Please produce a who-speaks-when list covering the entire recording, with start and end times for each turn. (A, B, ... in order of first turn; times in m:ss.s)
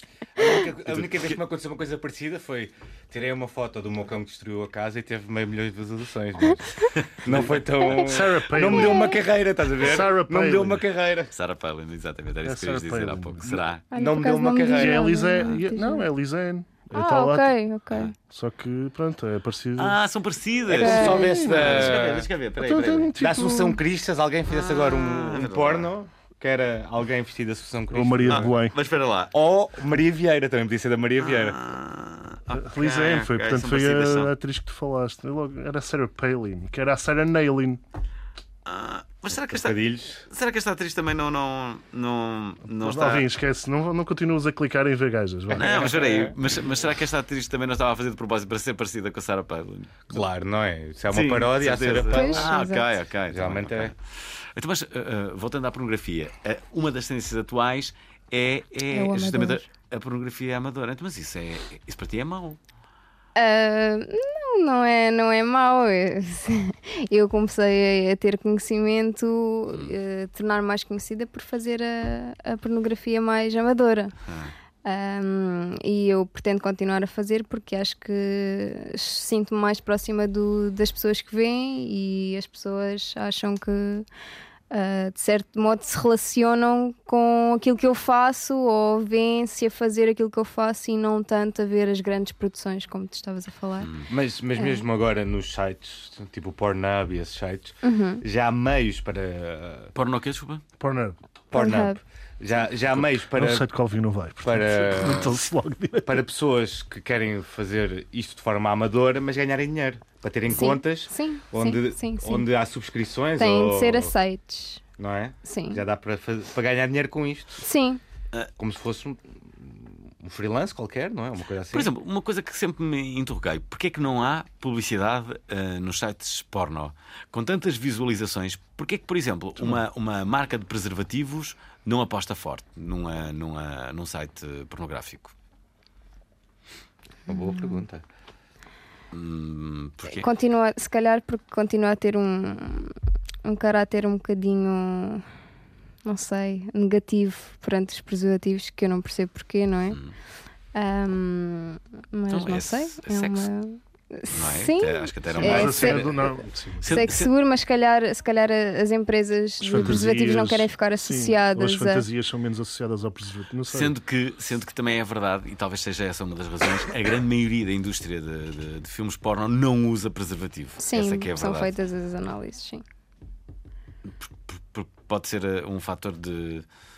0:00.4-0:11.3 A
0:00.9-0:01.4 B
0:06.9-0:07.4 B
0:07.4-0:09.2 C
0:08.7-0:09.2 D
0:09.8-0:10.8 C
0:11.3-0:13.8 B
0:12.4-0:13.6 C
0:13.9-0:16.1 D
0:13.9-0:15.1 A
0:14.7-0:17.5 C
0:16.9-0:18.1 D
0:18.2-0:20.0 C
0:19.8-0:23.1 B
0:20.7-0:22.3 A
0:20.7-0:21.4 D
0:21.1-0:22.0 C
0:22.6-0:23.8 C
0:23.2-0:28.5 A
0:24.5-0:25.9 B
0:27.9-0:28.8 C
0:28.3-0:29.3 B
0:29.3-0:31.6 A
0:31.2-0:34.3 B
0:32.6-0:37.8 C
0:38.7-0:43.3 B
0:39.5-0:40.2 A
0:42.8-0:45.6 C
0:45.5-0:46.4 A
0:45.5-0:50.0 B
0:50.1-0:52.5 A
0:51.1-1:02.6 B
0:52.0-0:52.9 D
0:53.3-0:53.9 A
0:58.9-0:59.6 D
1:03.4-1:14.1 D
1:14.3-1:14.5 B
1:14.8-1:24.1 D
1:24.7-1:33.9 D
1:33.8-1:34.1 B
1:34.1-1:39.9 A
1:34.6-1:34.8 D
1:37.8-1:38.2 D
1:40.0-1:40.6 B
1:40.8-1:41.2 C
1:41.5-1:43.7 A
1:41.5-1:42.0 D
1:43.3-1:46.2 C
1:44.4-1:45.4 A
1:46.0-1:54.1 A
1:50.5-1:52.5 D
1:53.4-1:54.8 D
1:55.0-1:57.6 A
1:55.4-1:55.8 D
1:57.6-1:58.0 D
1:58.6-2:01.9 A
2:01.7-2:15.3 B
2:17.3-2:18.0 A
2:17.3-2:17.8 D
2:19.1-2:20.3 B
2:20.1-2:25.2 D
2:26.1-2:30.0 D
2:30.8-2:36.2 D
2:32.3-2:33.5 B
2:34.3-2:36.2 B
2:35.4-2:37.1 C
2:35.6-2:36.3 A
2:36.8-2:37.3 B
2:36.8-2:42.1 D
2:39.7-2:43.9 C
2:39.7-2:40.1 B
2:43.7-2:51.7 B
2:50.8-2:52.8 D
2:54.1-2:56.7 B